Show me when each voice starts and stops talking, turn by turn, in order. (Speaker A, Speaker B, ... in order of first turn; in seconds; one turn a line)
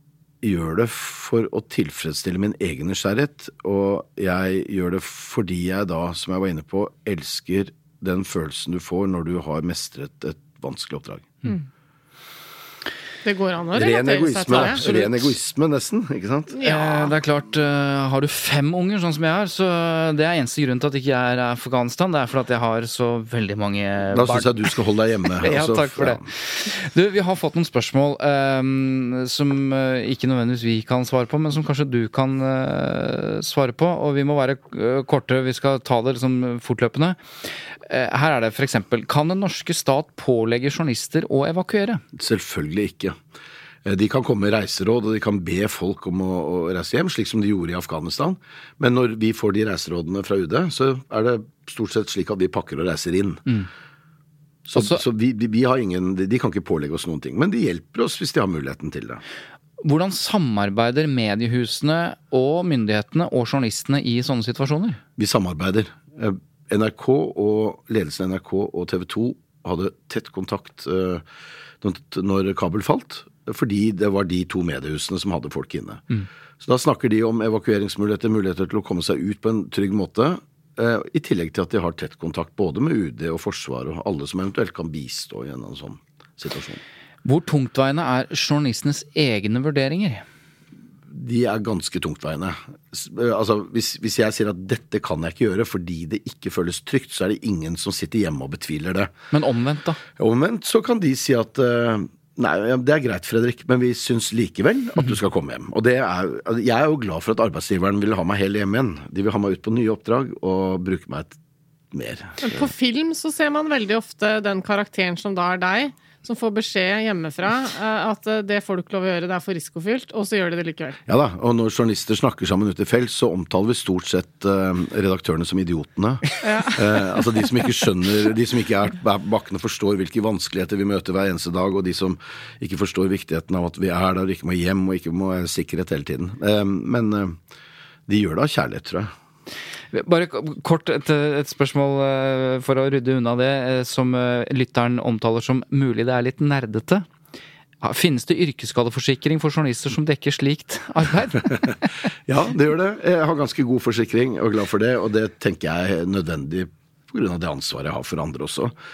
Speaker A: 0.4-11.3
Speaker B: 13.2-14.9
Speaker A: 13.7-16.5
Speaker C: 14.6-15.1
Speaker B: 16.5-17.1
Speaker C: 16.6-24.7
Speaker A: 24.1-26.3
Speaker C: 25.4-37.2
Speaker C: 37.9-42.0
Speaker A: 42.1-43.2
Speaker A: 43.8-53.4
Speaker A: 54.6-59.2
Speaker C: 54.7-55.0
Speaker C: 59.8-65.0
Speaker A: 65.2-71.2
Speaker A: 71.8-76.0
Speaker A: 76.6-86.8
Speaker C: 87.2-90.2
Speaker A: 91.1-99.1
Speaker C: 99.3-100.0
Speaker A: 100.2-111.4
Speaker A: 111.9-112.6
Speaker B: 112.4-121.0
Speaker A: 121.1-137.4
Speaker B: 126.4-127.2
Speaker A: 138.1-139.1
Speaker C: 139.9-147.1
Speaker C: 147.8-151.8
Speaker A: 152.3-158.7